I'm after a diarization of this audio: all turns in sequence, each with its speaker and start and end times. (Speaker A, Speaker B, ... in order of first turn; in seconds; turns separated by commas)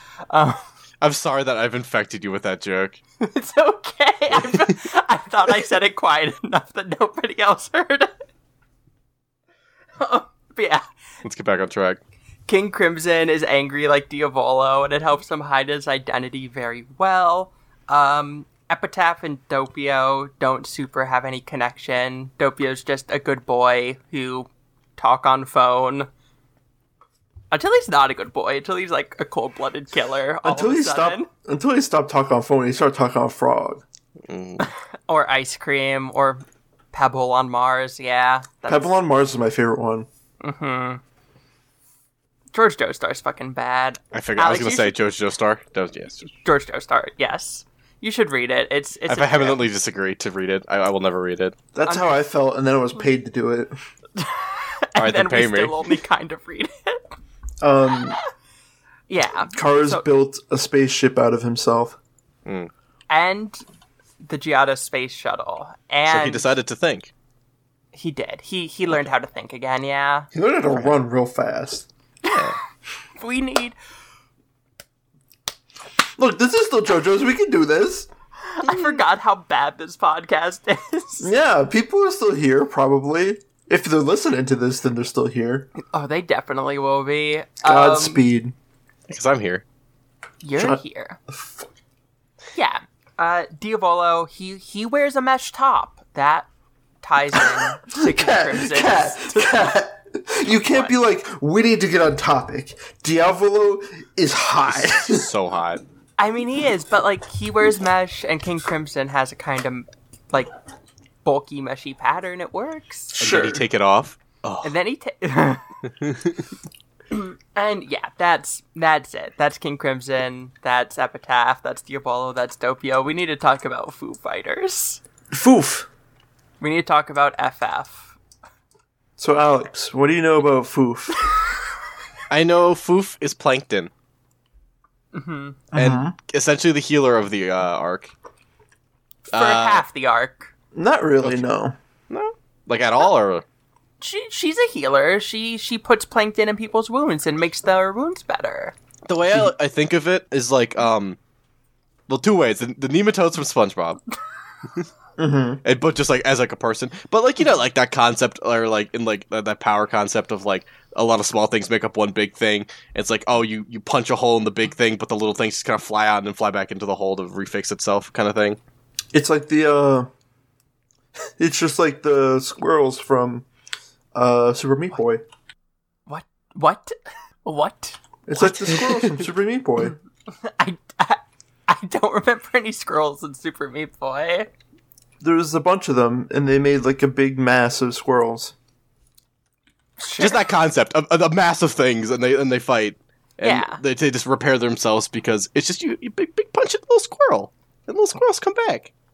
Speaker A: 0.3-0.6, Speaker B: 1.0-3.0, Speaker A: 3.2-8.1, Speaker A: 10.0-10.8, Speaker B: 11.2-12.0, Speaker A: 12.5-26.1, Speaker A: 27.5-31.3, Speaker C: 30.4-33.8, Speaker B: 34.3-34.7, Speaker A: 34.6-38.9, Speaker C: 38.7-40.1, Speaker A: 40.4-41.0, Speaker A: 42.5-45.0, Speaker B: 44.1-46.3, Speaker A: 46.4-49.6, Speaker B: 49.1-51.5, Speaker C: 51.7-53.7, Speaker A: 51.9-52.2, Speaker A: 54.2-57.0, Speaker B: 55.0-55.9, Speaker C: 57.6-58.2, Speaker A: 59.1-60.0, Speaker C: 59.5-62.0, Speaker A: 63.1-63.6, Speaker A: 64.2-66.5, Speaker B: 66.1-67.1, Speaker A: 67.9-70.3, Speaker C: 70.3-71.9, Speaker B: 70.7-71.0, Speaker A: 72.2-72.5, Speaker B: 72.3-72.5, Speaker A: 73.2-73.8, Speaker C: 76.2-78.1, Speaker A: 78.5-81.3, Speaker C: 81.2-85.7, Speaker A: 85.8-88.2, Speaker C: 87.6-88.5, Speaker B: 89.1-89.6, Speaker A: 90.4-91.2, Speaker C: 90.5-91.7, Speaker A: 92.5-96.5, Speaker A: 97.0-99.7, Speaker C: 97.4-105.3, Speaker A: 100.6-101.0, Speaker B: 104.7-105.8, Speaker A: 106.2-110.5, Speaker A: 111.2-113.2, Speaker C: 113.1-113.6, Speaker B: 113.2-114.8, Speaker A: 114.6-115.7, Speaker B: 116.0-116.3, Speaker A: 117.1-125.0, Speaker C: 125.3-125.9, Speaker A: 126.6-128.1, Speaker C: 129.2-131.2, Speaker B: 132.3-133.9, Speaker A: 135.1-135.7, Speaker C: 135.7-136.2, Speaker B: 135.7-138.1, Speaker A: 139.3-140.5, Speaker B: 139.3-139.8, Speaker C: 140.8-141.8, Speaker B: 142.1-143.4, Speaker A: 144.0-148.7, Speaker B: 149.1-151.2, Speaker B: 152.1-154.0, Speaker C: 155.2-155.6, Speaker B: 155.6-168.6, Speaker C: 169.1-170.1, Speaker C: 171.4-173.5, Speaker C: 174.1-175.2, Speaker A: 176.1-179.2, Speaker C: 178.3-180.0, Speaker A: 180.3-184.5, Speaker C: 185.2-188.5, Speaker A: 190.0-190.4, Speaker B: 190.2-198.9, Speaker A: 193.4-193.8